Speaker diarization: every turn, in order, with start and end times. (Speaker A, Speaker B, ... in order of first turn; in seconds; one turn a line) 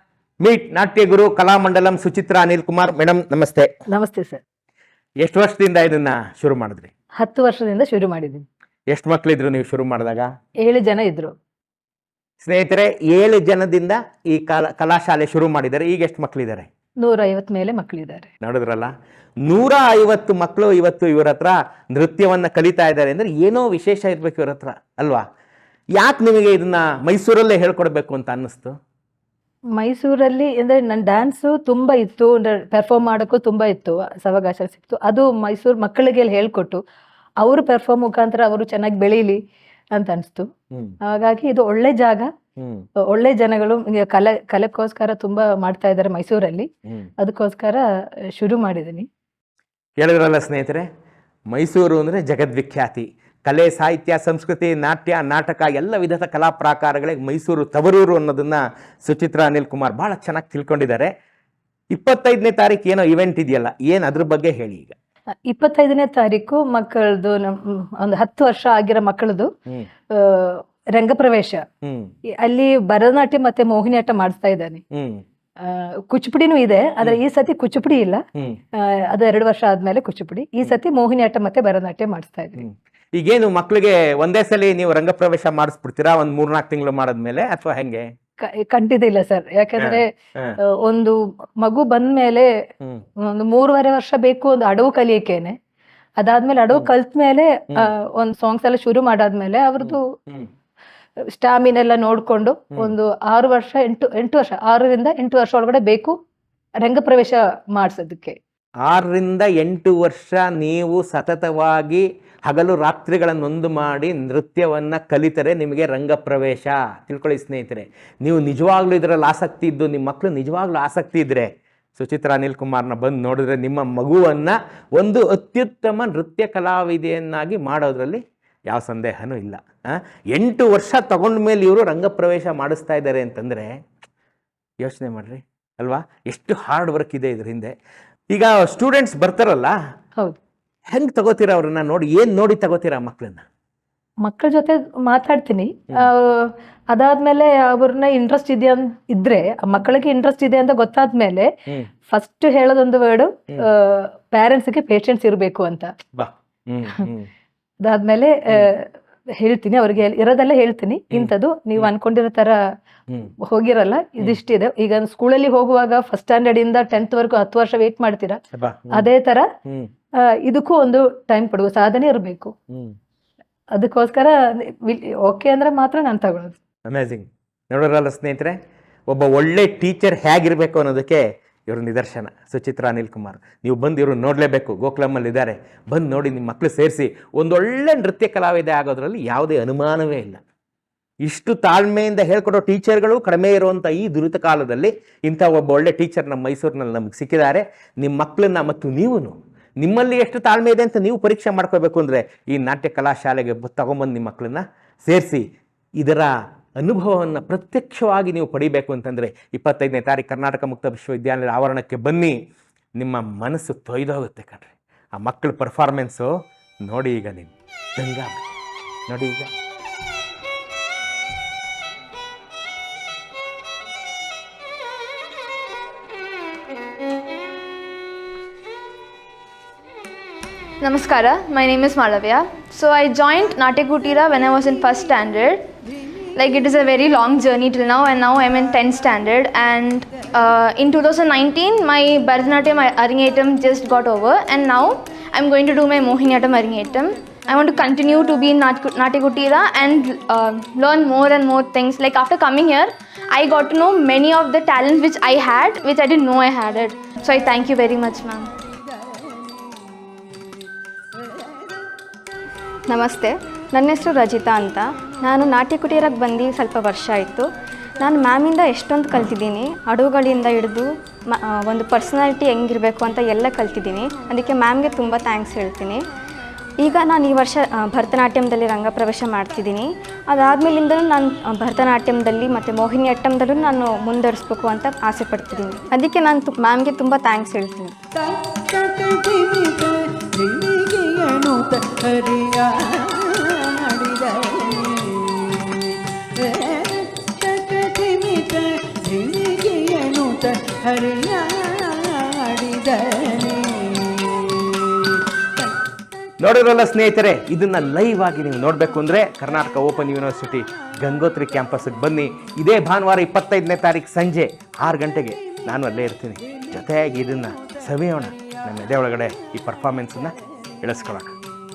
Speaker A: 0.4-3.7
Speaker B: 3.9-4.4
Speaker A: 5.2-6.9
Speaker B: 7.2-8.5
Speaker A: 8.9-10.3
Speaker B: 10.6-11.3
Speaker A: 12.4-16.7
Speaker B: 17.0-18.3
Speaker A: 18.4-18.9
Speaker A: 19.4-25.2
Speaker A: 26.0-28.7
Speaker B: 29.8-36.8
Speaker B: 37.4-39.4
Speaker B: 39.9-40.5
Speaker B: 41.0-42.3
Speaker A: 42.6-42.8
Speaker B: 43.1-46.7
Speaker B: 47.2-47.8
Speaker B: 48.4-49.1
Speaker A: 50.0-50.9
Speaker A: 51.5-61.1
Speaker A: 61.9-64.9
Speaker B: 65.5-69.5
Speaker B: 70.1-71.6
Speaker A: 71.8-72.1
Speaker B: 72.4-74.8
Speaker A: 74.9-75.2
Speaker B: 75.6-78.2
Speaker B: 78.8-82.6
Speaker A: 82.6-88.1
Speaker B: 88.4-90.0
Speaker A: 89.8-90.6
Speaker B: 90.7-92.5
Speaker B: 93.3-95.5
Speaker B: 96.2-100.0
Speaker A: 99.8-100.5
Speaker B: 101.3-106.1
Speaker B: 106.8-108.4
Speaker A: 108.8-133.7
Speaker A: 134.8-137.7
Speaker A: 138.3-139.7
Speaker A: 140.9-143.4
Speaker B: 144.2-151.5
Speaker B: 152.1-155.9
Speaker A: 156.2-157.3
Speaker B: 157.8-162.6
Speaker A: 161.1-161.9
Speaker B: 163.4-168.4
Speaker A: 168.5-169.1
Speaker B: 168.9-169.5
Speaker B: 170.2-172.5
Speaker B: 173.7-176.6
Speaker A: 176.9-178.6
Speaker A: 179.1-190.4
Speaker A: 191.2-205.4
Speaker A: 206.0-212.3
Speaker A: 213.0-216.3
Speaker A: 216.8-218.4
Speaker A: 219.1-219.5
Speaker C: 230.8-235.7
Speaker C: 236.3-258.5
Speaker D: 262.9-267.5
Speaker D: 268.0-276.0
Speaker D: 276.8-287.9
Speaker E: 288.1-305.7
Speaker A: 306.4-321.4